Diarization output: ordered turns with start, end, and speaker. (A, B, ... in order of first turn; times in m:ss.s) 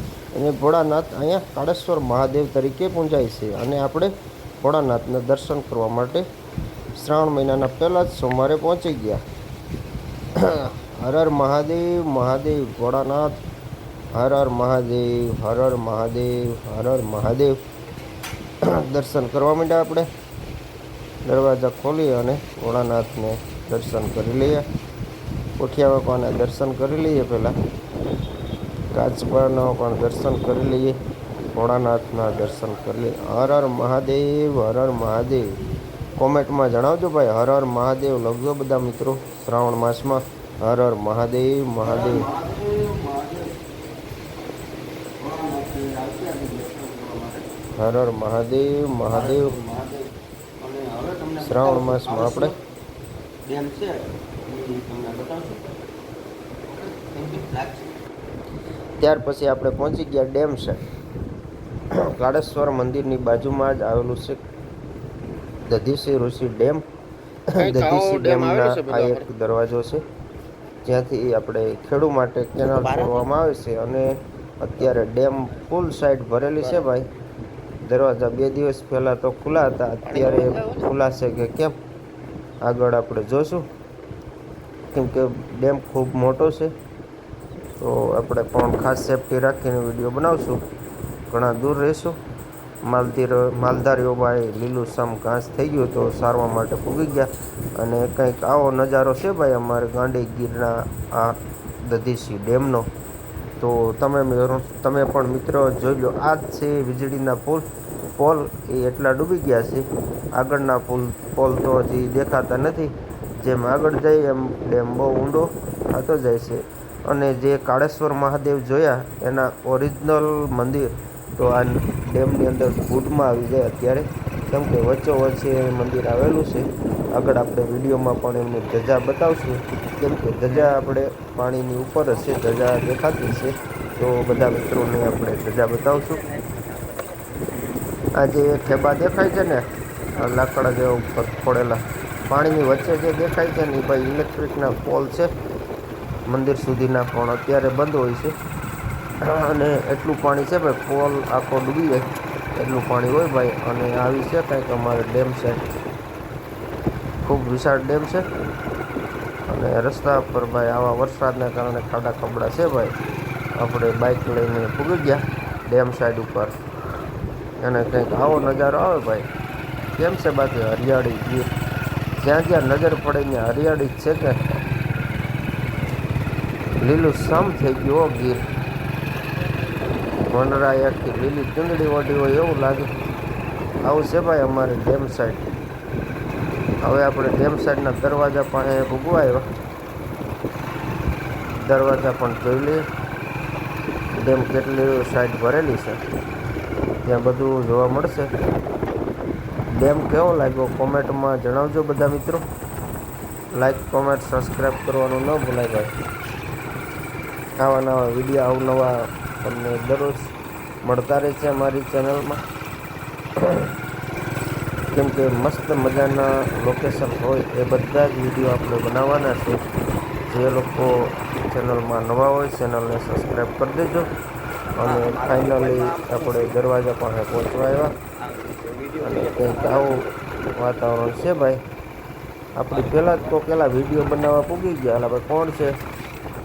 0:00.3-0:04.1 A
0:04.6-0:06.2 A
0:07.0-0:09.2 A
0:10.4-0:13.4 A
0:14.2-0:17.6 A
0:18.6-0:20.1 A
0:21.3-0:24.6 A
0:25.6-0:27.6 A
0:28.9-0:31.0 A
0:31.5-0:35.6 A
0:36.2-0:42.3 A
0:41.8-0:43.5 B
0:45.2-0:47.4 B
0:47.8-0:49.6 A
0:49.1-0:50.1 B
0:50.6-0:52.5 B
0:51.4-0:52.5 A
0:53.5-0:54.0 B
0:54.5-0:55.7 B
0:56.7-0:57.9 B
0:59.0-1:00.8 A
1:02.0-1:04.4 A
1:05.7-1:06.8 A
1:07.6-1:09.3 B
1:07.6-1:10.0 A
1:10.8-1:14.1 A
1:12.8-1:13.2 B
1:14.6-1:17.1 A
1:16.6-1:16.9 B
1:17.8-1:21.8 A
1:20.1-1:20.8 B
1:22.6-1:23.7 A
1:24.9-1:26.7 A
1:27.8-1:30.6 A
1:31.3-1:32.2 A
1:32.9-1:42.9 A
1:43.6-2:16.2 A
2:16.1-2:17.2 B
2:18.2-2:19.7 A
2:20.2-2:25.3 A
2:26.3-2:28.4 A
2:29.3-2:35.6 A
2:37.2-2:38.2 A
2:39.5-2:42.9 A
2:43.6-2:46.5 A
2:47.6-2:49.3 A
2:50.0-2:51.5 A
2:52.2-2:54.5 A
2:56.8-2:58.4 A
3:00.3-3:02.9 A
3:03.8-3:05.4 A
3:06.8-3:09.5 A
3:11.6-3:12.8 A
3:14.2-3:16.0 A
3:17.0-3:18.3 A
3:19.8-3:22.4 A
3:23.6-3:25.9 A
3:27.6-3:30.3 A
3:30.8-3:32.4 A
3:33.4-3:33.7 A
3:34.9-3:39.7 A
3:40.3-3:44.1 A
3:44.8-3:47.9 A
3:44.8-3:46.5 B
3:48.6-3:49.8 B
3:49.0-3:51.6 A
3:52.6-3:55.8 A